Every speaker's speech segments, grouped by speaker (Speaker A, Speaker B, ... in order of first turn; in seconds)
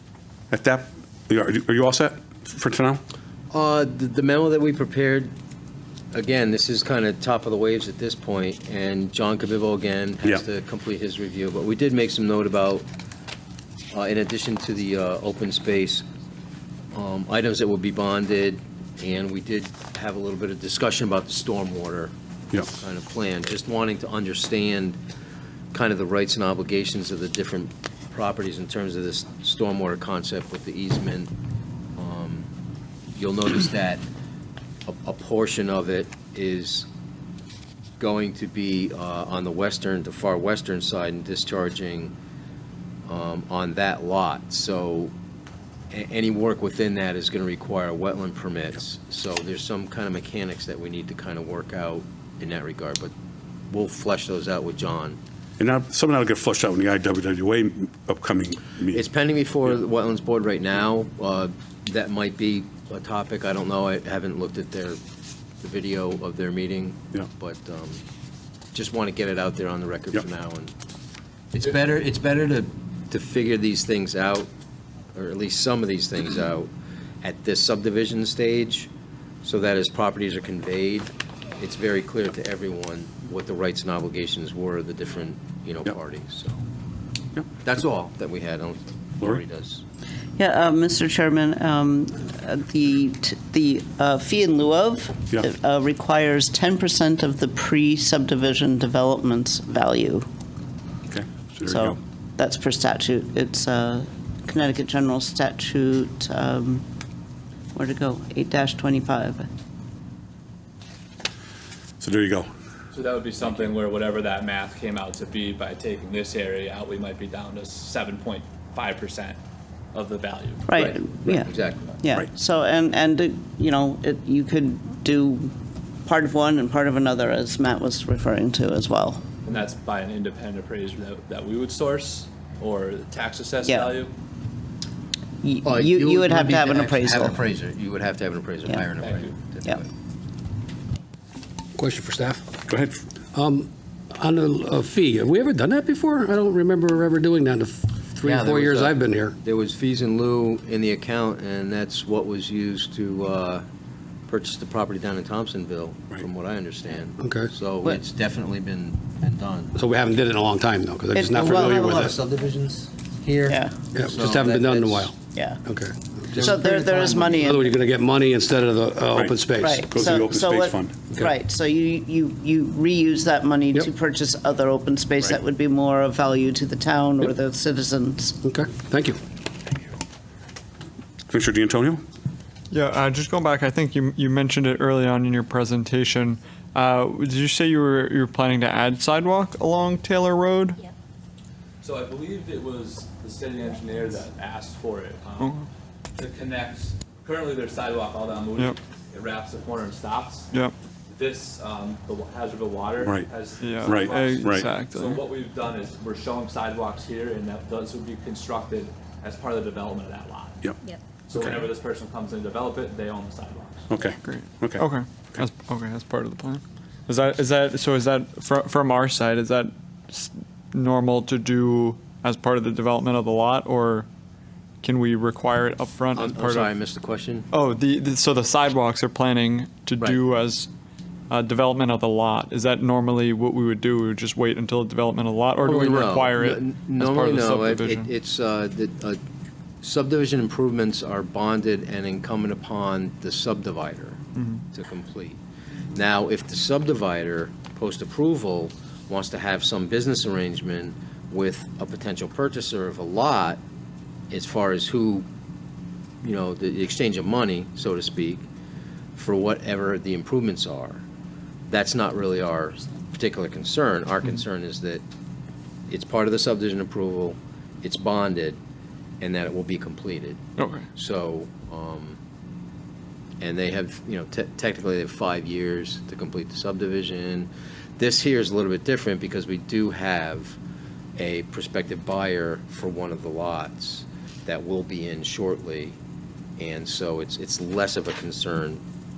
Speaker A: 0.5-3.0, 55.6-59.0, 101.1-102.0, 112.0-112.5, 142.7-143.1, 169.1-171.0, 181.3-182.0, 203.0-203.3, 203.8-204.7, 211.3-211.7, 213.9-215.4
Speaker B: 3.5-5.3, 6.1-12.8, 13.9-16.1, 16.9-22.1, 22.7-25.0, 25.7-31.3, 32.0-32.5, 33.1-34.0, 34.9-36.9, 38.0-42.1, 43.1-45.1, 45.9-53.1, 53.7-55.2, 58.9-65.0, 65.6-68.0, 68.7-70.7, 71.5-74.5, 75.1-76.7, 77.2-78.9, 79.4-86.6, 87.6-89.8, 120.8-122.0, 135.7-139.9, 148.2-153.7, 154.3-159.8, 161.5-163.5, 164.0-165.1, 166.4-167.4, 226.1-227.5, 235.6-239.2, 239.8-244.2, 244.7-245.4, 245.9-253.6, 254.3-255.2, 256.2-258.5, 259.2-261.0, 261.7-265.0, 265.9-268.6, 269.2-270.4, 270.9-272.2, 273.4-280.6, 281.2-286.0, 286.6-288.8
Speaker C: 90.4-100.3, 101.7-106.8, 107.7-109.5, 120.7-125.5, 126.0-129.2, 135.4-137.4, 161.1-162.1, 163.5-163.8, 165.3-165.6, 166.3-167.7, 169.6-178.4
Speaker D: 112.9-119.4, 119.9-120.8, 129.4-134.1, 139.0-139.3, 191.8-195.6, 196.2-200.5, 201.1-210.6, 211.3-213.9
Speaker E: 141.8-142.6, 143.3-149.4, 157.2-157.5, 159.8-162.2, 163.9-169.8, 178.4-179.2
Speaker F: 182.7-190.8, 195.4-195.7, 203.6-205.2, 214.2-224.1, 224.8-226.7, 227.5-230.7, 231.3-238.1, 244.4-244.6, 270.6-270.9